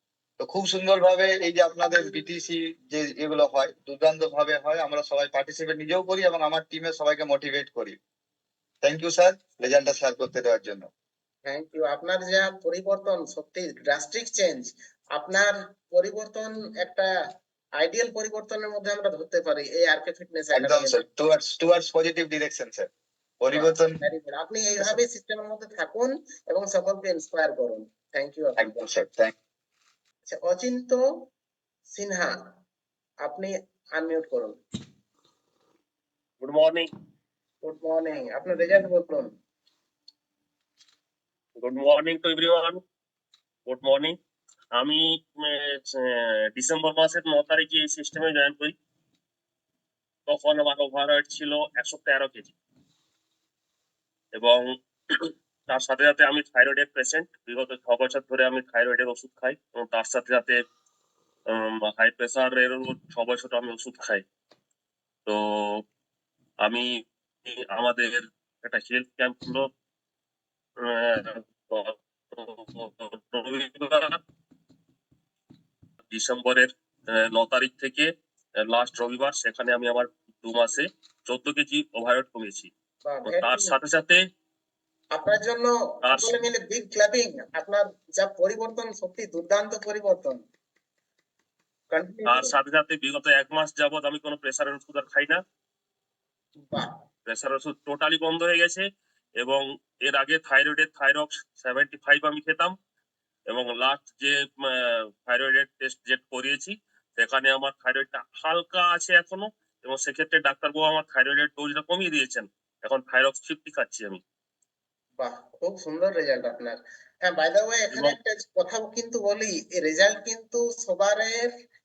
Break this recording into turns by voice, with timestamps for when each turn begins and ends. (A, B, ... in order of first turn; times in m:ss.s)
0:00.4-0:08.0 A
0:08.8-0:10.9 A
0:11.4-0:17.1 B
0:17.8-0:21.0 B
0:20.5-0:24.0 A
0:23.5-0:28.8 B
0:28.6-0:29.3 A
0:30.3-0:31.0 B
0:31.9-0:32.3 B
0:33.2-0:34.6 B
0:36.4-0:36.9 C
0:37.6-0:39.3 B
0:41.6-0:42.8 C
0:43.7-0:44.2 C
0:44.8-0:48.7 C
0:50.3-0:52.5 C
0:54.4-1:00.6 C
1:01.5-1:04.2 C
1:05.3-1:05.8 C
1:06.6-1:06.9 C
1:07.4-1:09.7 C
1:10.8-1:14.2 C
1:16.1-1:18.1 C
1:18.6-1:22.7 C
1:23.0-1:23.8 B
1:23.2-1:24.2 C
1:25.1-1:30.4 B
1:26.1-1:26.3 C
1:31.9-1:32.5 B
1:32.3-1:35.4 C
1:37.3-1:38.8 C
1:39.4-1:42.7 C
1:43.5-1:54.2 C
1:55.2-2:01.5 B